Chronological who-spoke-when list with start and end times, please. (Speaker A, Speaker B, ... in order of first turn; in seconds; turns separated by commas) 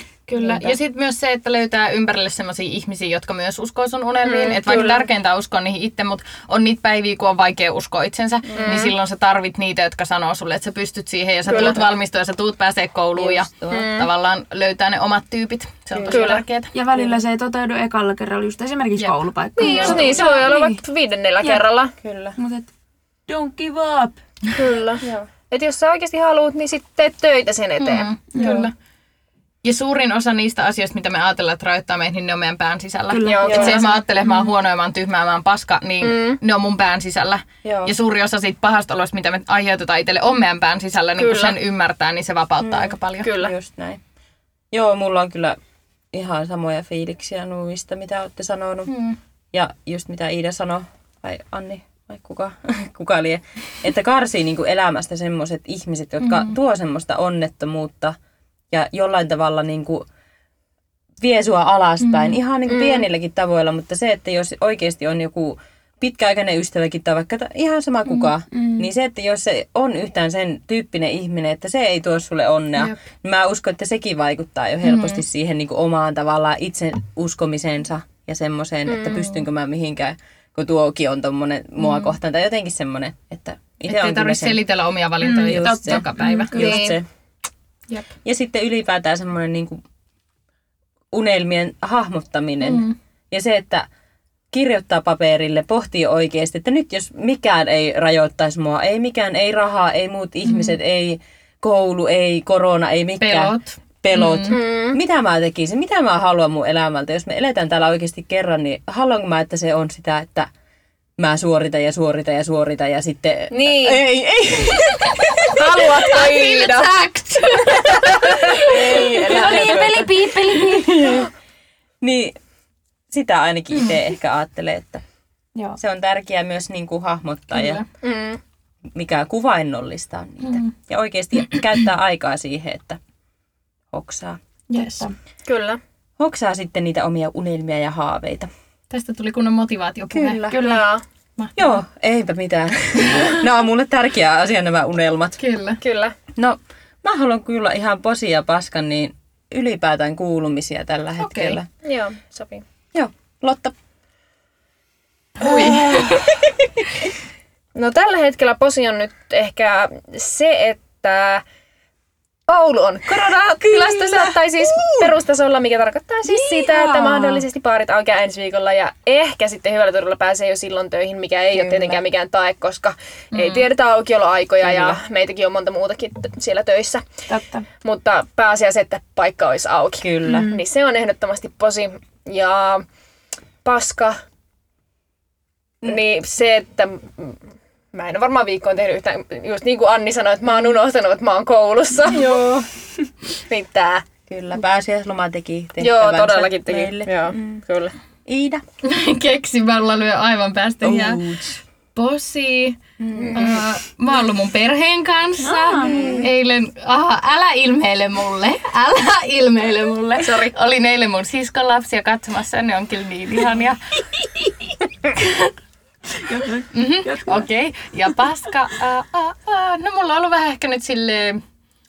Speaker A: 0.3-0.8, Speaker B: 0.3-16.7, Speaker C: 4.2-5.1, Speaker D: 8.5-8.9, Speaker C: 8.6-8.9, Speaker C: 11.5-11.8, Speaker D: 13.2-13.9, Speaker C: 13.7-14.1, Speaker D: 15.9-16.3, Speaker C: 16.1-16.4, Speaker A: 16.7-20.8, Speaker C: 19.6-21.9, Speaker D: 19.6-20.3, Speaker B: 19.7-20.3, Speaker A: 21.4-21.6, Speaker D: 22.0-22.4, Speaker A: 22.4-22.7, Speaker A: 23.3-24.2, Speaker C: 24.5-28.6, Speaker D: 25.0-25.3, Speaker B: 27.8-28.7, Speaker A: 28.3-28.7, Speaker D: 28.4-28.7, Speaker B: 29.6-43.3, Speaker A: 33.1-34.5, Speaker C: 33.2-33.9, Speaker D: 33.4-33.8, Speaker C: 36.0-36.4, Speaker D: 37.6-37.9, Speaker C: 41.2-41.6, Speaker D: 42.6-44.0, Speaker C: 43.2-43.5, Speaker D: 44.7-45.6, Speaker D: 46.1-48.9, Speaker B: 48.9-49.2, Speaker D: 49.5-58.1, Speaker B: 56.2-56.5, Speaker D: 58.7-60.1, Speaker D: 61.2-84.6, Speaker B: 62.0-62.4, Speaker C: 62.7-63.1, Speaker A: 68.5-68.9, Speaker B: 74.8-75.2, Speaker C: 78.9-79.4, Speaker B: 81.8-82.1, Speaker B: 83.9-86.5, Speaker A: 85.2-86.7, Speaker D: 85.4-87.0, Speaker C: 86.5-87.0, Speaker D: 88.2-89.8, Speaker D: 91.1-93.9, Speaker B: 92.6-93.0, Speaker D: 94.5-110.5, Speaker B: 100.5-100.8, Speaker B: 103.2-104.6, Speaker C: 104.5-105.0, Speaker D: 111.2-115.7, Speaker C: 113.5-114.0, Speaker C: 115.5-116.9, Speaker B: 115.9-119.8, Speaker D: 118.6-121.3, Speaker A: 118.7-121.2, Speaker D: 122.0-122.4, Speaker D: 123.1-125.0, Speaker D: 125.8-127.8, Speaker B: 127.5-127.8, Speaker C: 128.0-128.4, Speaker D: 128.9-133.0, Speaker B: 130.4-130.7, Speaker D: 133.9-134.4, Speaker B: 134.7-135.1, Speaker A: 134.7-135.1, Speaker C: 135.4-135.8, Speaker D: 136.2-138.5, Speaker B: 138.9-140.4, Speaker D: 140.1-140.7, Speaker A: 140.5-140.9, Speaker C: 140.6-141.0, Speaker B: 141.4-141.8, Speaker D: 141.6-145.4, Speaker B: 143.1-143.4, Speaker B: 145.4-145.8, Speaker C: 145.8-146.2, Speaker D: 146.4-151.7, Speaker B: 151.2-151.6, Speaker C: 151.8-152.6, Speaker D: 152.9-153.7, Speaker B: 155.4-156.1, Speaker D: 155.4-156.3, Speaker C: 157.7-161.4, Speaker C: 162.5-177.1, Speaker D: 163.6-165.1, Speaker A: 166.3-167.4, Speaker D: 171.5-172.0, Speaker B: 173.3-173.6, Speaker D: 174.6-175.0, Speaker A: 177.3-177.7, Speaker C: 177.8-182.8, Speaker D: 180.0-180.5, Speaker A: 180.2-180.6, Speaker C: 183.6-184.2, Speaker C: 185.8-192.3, Speaker D: 192.1-192.7, Speaker C: 193.5-194.0, Speaker D: 194.3-197.6, Speaker C: 195.8-197.9, Speaker D: 198.3-198.6, Speaker B: 198.8-201.2, Speaker D: 200.8-201.6, Speaker B: 201.9-202.8, Speaker D: 203.0-203.6, Speaker C: 203.1-203.7, Speaker B: 203.3-213.8, Speaker A: 205.4-205.9, Speaker D: 205.8-206.3, Speaker C: 205.8-206.2, Speaker C: 210.2-210.5, Speaker B: 215.2-215.5, Speaker A: 216.2-217.4, Speaker B: 216.7-221.4